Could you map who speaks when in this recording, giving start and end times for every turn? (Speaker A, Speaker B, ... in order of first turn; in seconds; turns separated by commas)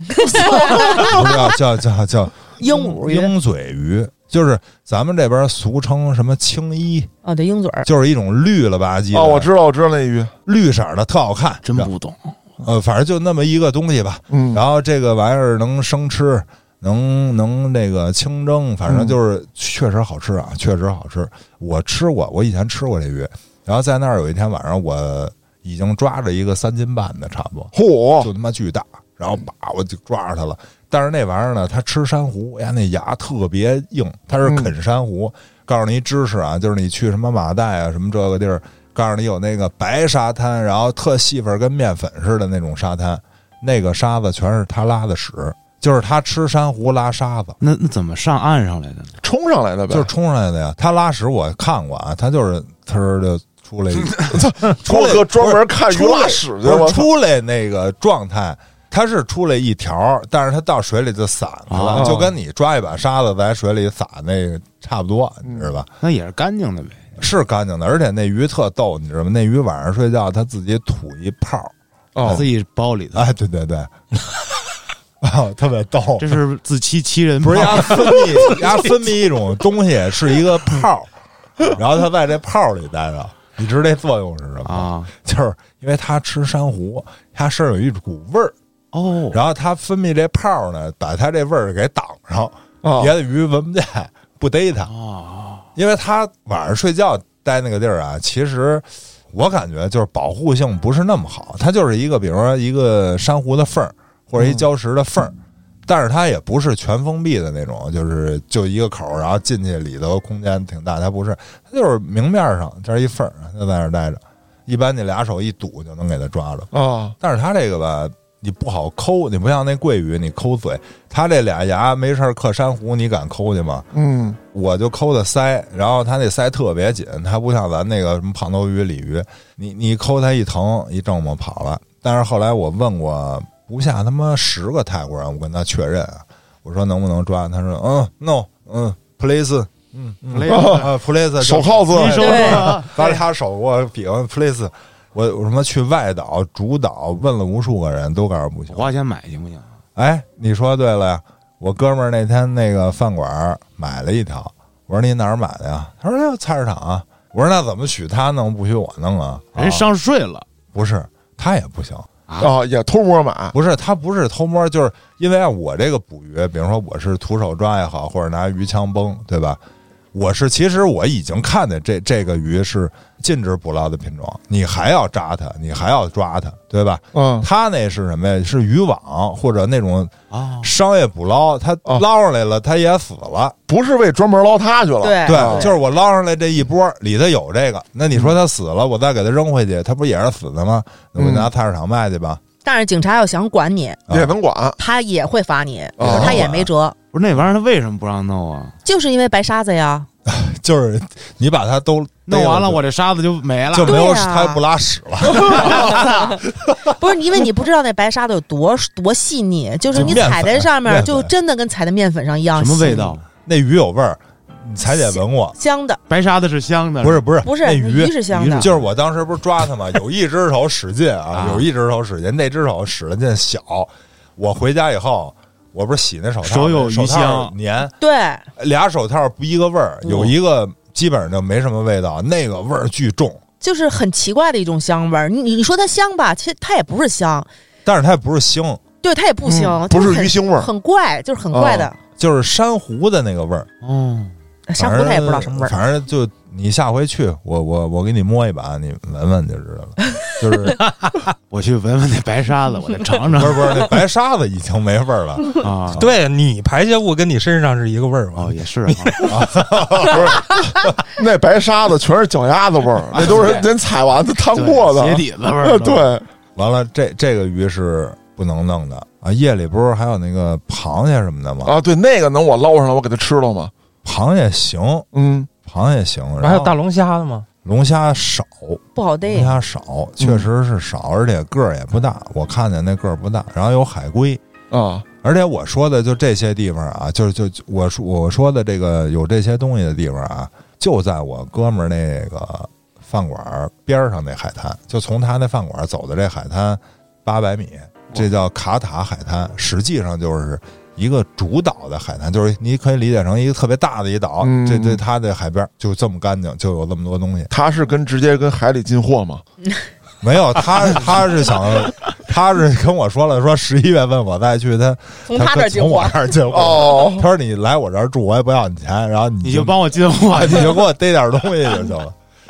Speaker A: 0.2-1.4, Speaker B: 0.9-7.1, Speaker A: 2.6-3.3, Speaker A: 7.2-7.9, Speaker B: 7.8-9.5, Speaker C: 9.1-10.3, Speaker B: 10.5-11.9, Speaker D: 11.6-12.3, Speaker B: 12.6-47.6, Speaker C: 14.3-14.6, Speaker C: 18.9-19.2, Speaker C: 27.7-28.3, Speaker C: 34.4-34.7, Speaker D: 47.6-49.1, Speaker C: 49.2-50.1, Speaker B: 49.9-65.9, Speaker C: 54.3-57.1, Speaker D: 61.7-62.2, Speaker C: 62.0-62.3, Speaker C: 65.4-65.7, Speaker D: 66.0-67.1, Speaker B: 67.2-71.7, Speaker C: 72.2-72.5, Speaker D: 72.3-73.3, Speaker B: 73.1-73.9, Speaker B: 75.2-76.4, Speaker D: 76.2-78.6, Speaker B: 77.4-81.1, Speaker B: 81.8-88.5, Speaker D: 84.7-85.1, Speaker D: 88.9-89.4, Speaker B: 89.3-94.9, Speaker C: 92.8-93.1, Speaker D: 94.9-95.7, Speaker B: 95.8-105.3, Speaker B: 105.9-123.9, Speaker C: 116.7-117.2, Speaker C: 123.9-124.4, Speaker B: 124.5-148.9, Speaker D: 140.3-140.9, Speaker C: 140.5-142.6, Speaker D: 141.9-143.2, Speaker A: 142.2-142.7, Speaker D: 148.7-149.7, Speaker B: 150.0-159.9, Speaker D: 159.6-160.5, Speaker B: 160.7-162.1, Speaker D: 162.3-162.5, Speaker C: 162.4-163.6, Speaker B: 163.5-169.6, Speaker B: 170.1-183.6, Speaker C: 177.1-177.5, Speaker D: 180.3-180.7, Speaker C: 183.7-185.7, Speaker A: 185.0-185.8, Speaker B: 185.3-192.4, Speaker C: 191.2-191.5, Speaker A: 192.6-194.0, Speaker B: 194.1-194.3, Speaker C: 194.1-194.8, Speaker A: 194.8-197.0, Speaker C: 196.0-196.5, Speaker B: 196.0-196.7, Speaker D: 197.1-198.8, Speaker A: 198.8-200.1, Speaker B: 200.3-202.8, Speaker D: 202.3-204.0, Speaker B: 203.7-207.0, Speaker A: 203.8-204.6, Speaker A: 205.4-206.4, Speaker D: 205.6-206.0, Speaker A: 207.0-213.2, Speaker B: 209.9-211.3, Speaker D: 212.6-213.2, Speaker B: 213.4-215.6, Speaker A: 214.9-216.0, Speaker D: 216.1-217.3, Speaker B: 217.0-227.9, Speaker A: 217.4-218.7, Speaker D: 218.3-218.8, Speaker D: 221.3-221.7, Speaker D: 226.4-227.5, Speaker A: 228.0-228.4, Speaker B: 228.6-233.4, Speaker D: 230.1-230.3, Speaker A: 233.6-237.5, Speaker B: 237.8-238.8, Speaker A: 239.0-242.0, Speaker C: 239.4-240.7, Speaker C: 241.5-241.9, Speaker B: 242.2-243.7, Speaker D: 243.8-244.3, Speaker A: 244.7-245.8, Speaker B: 244.8-250.8, Speaker E: 250.8-251.2, Speaker D: 251.5-253.9, Speaker B: 253.3-256.2, Speaker D: 255.6-256.1, Speaker E: 255.9-259.4, Speaker D: 258.4-259.3, Speaker B: 259.3-260.4, Speaker C: 260.1-266.3, Speaker D: 263.1-263.7, Speaker D: 264.5-266.1, Speaker B: 266.6-271.7, Speaker C: 271.6-273.7, Speaker B: 274.0-275.1, Speaker C: 275.1-275.5, Speaker B: 275.6-276.8, Speaker E: 276.4-277.5, Speaker B: 277.6-284.4, Speaker A: 278.9-279.6, Speaker C: 280.2-280.5, Speaker C: 284.7-285.1, Speaker B: 285.2-307.5, Speaker C: 304.4-305.0, Speaker C: 307.5-309.4, Speaker B: 310.2-322.1, Speaker A: 315.3-316.2, Speaker C: 316.5-317.3, Speaker D: 319.4-320.9